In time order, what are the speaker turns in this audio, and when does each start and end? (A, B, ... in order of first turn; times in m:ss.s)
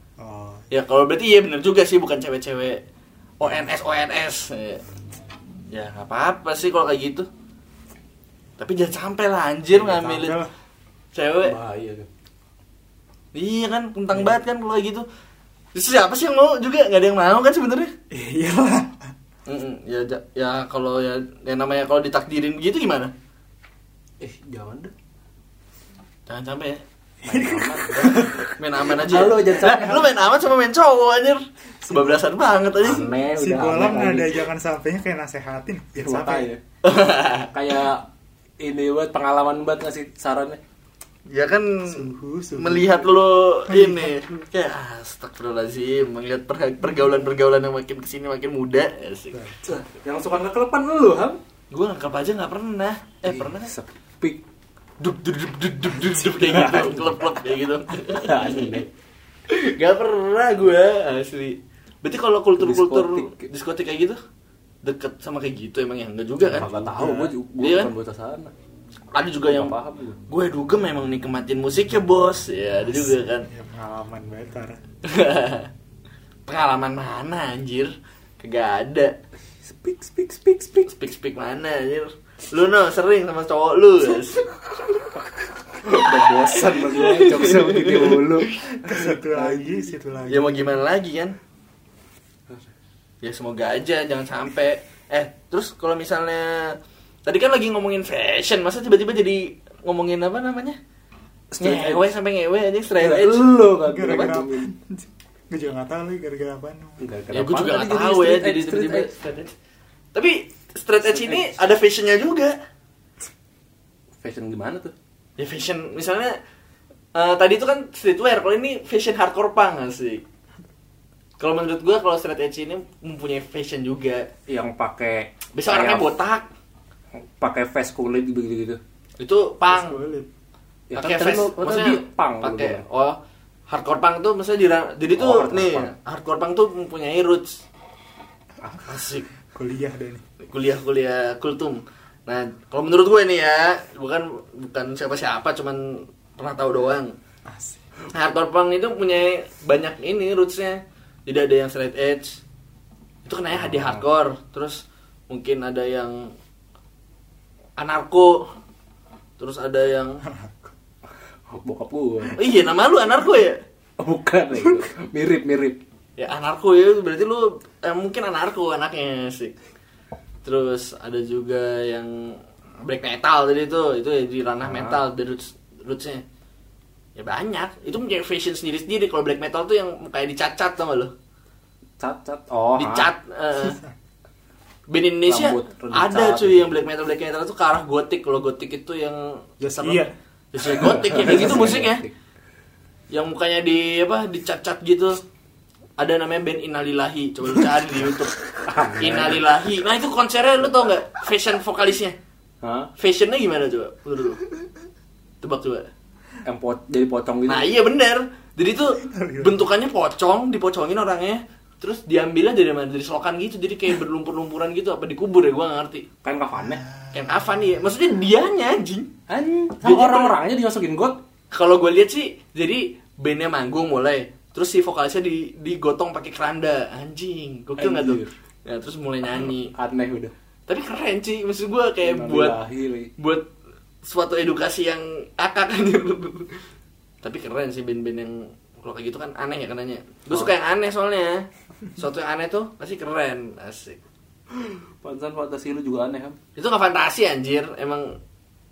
0:00.2-0:00.7 A
0:00.7-0:02.8 B
0:03.4-0:04.8 B
0:05.7-0:07.3 B
0:08.6-0:10.4 B
0:09.7-0:10.5 A
0:11.1-0:11.5 B
0:11.4-0:12.1 C
0:13.3-0:15.0 B
0:15.7-0:17.9 B
0:18.1-0:19.1 A
0:19.5-0:23.1 B
0:24.2-0:24.9 C
0:26.3-0:26.8 B
0:27.2-0:28.5 A
0:27.2-0:30.1 C
0:28.6-0:33.1 B
0:31.8-0:32.3 A
0:32.8-0:34.5 C
0:33.3-0:36.5 A
0:36.0-0:36.6 C
0:36.8-0:37.5 B
0:37.5-0:38.1 C
0:38.6-0:40.6 C
0:41.3-0:49.8 B
0:41.9-0:44.2 A
0:46.8-0:47.3 A
0:49.3-0:49.8 A
0:49.9-0:51.4 C
0:51.7-0:53.7 B
0:53.2-0:54.4 C
0:55.0-0:58.7 B
0:56.3-0:57.0 A
0:56.3-0:57.2 C
0:58.1-0:58.9 C
0:59.5-1:04.2 B
1:02.6-1:03.5 C
1:04.8-1:06.9 B
1:06.4-1:08.5 C
1:06.9-1:07.3 A
1:07.6-1:07.9 B
1:09.1-1:09.7 B
1:09.5-1:10.2 C
1:10.3-1:13.5 B
1:12.9-1:14.8 A
1:15.0-1:15.7 B
1:16.5-1:19.2 B
1:19.6-1:20.9 C
1:20.8-1:25.0 B
1:25.2-1:29.6 C
1:25.9-1:28.6 B
1:28.7-1:30.8 A
1:30.3-1:31.4 B
1:33.2-1:40.8 B
1:41.5-1:42.1 C
1:41.6-1:44.3 B
1:43.0-1:44.7 C
1:43.8-1:47.0 A
1:47.0-1:49.3 C
1:47.3-1:49.5 B
1:50.1-1:52.6 B
1:51.0-1:51.6 C
1:54.2-1:54.9 C
1:55.4-1:56.3 B
1:57.1-2:00.2 B
2:01.4-2:04.3 B
2:04.5-2:06.1 C
2:05.5-2:06.5 B
2:07.1-2:08.8 C
2:09.2-2:10.0 B
2:09.7-2:10.3 A
2:10.9-2:12.8 C
2:10.9-2:13.2 B
2:13.7-2:17.6 B
2:15.1-2:15.9 C
2:18.8-2:19.3 B
2:19.5-2:20.2 A
2:20.4-2:27.1 B
2:27.4-2:27.8 A
2:28.1-2:32.4 B
2:33.2-2:36.3 B
2:33.5-2:34.0 C
2:37.8-2:38.5 B
2:39.4-2:40.2 B
2:41.5-2:42.5 C
2:42.4-2:43.6 B
2:44.0-2:45.8 C
2:46.2-2:49.5 B
2:50.4-2:56.2 B
2:54.6-2:55.0 C
2:57.2-3:01.1 B
3:02.0-3:03.1 C
3:02.7-3:03.8 B
3:04.9-3:12.0 B
3:05.2-3:06.8 C
3:09.6-3:10.1 A
3:10.7-3:12.1 C
3:13.1-3:15.2 B
3:16.0-3:18.4 B
3:18.6-3:19.4 C
3:18.9-3:22.2 B
3:22.6-3:22.9 C
3:23.0-3:24.4 B
3:25.4-3:25.9 B
3:26.4-3:27.7 C
3:27.4-3:36.0 B
3:29.0-3:29.7 A
3:36.2-3:36.8 C
3:36.8-3:37.7 A
3:37.1-3:39.1 B
3:39.3-3:41.2 C
3:39.8-3:40.4 B
3:41.5-3:49.7 B
3:47.8-3:48.3 C
3:49.3-3:50.3 C
3:50.7-3:52.6 B
3:52.0-3:53.1 C
3:53.2-3:53.5 B
3:54.0-3:56.5 B
3:57.2-4:04.0 B
4:04.5-4:06.4 C
4:06.6-4:08.2 B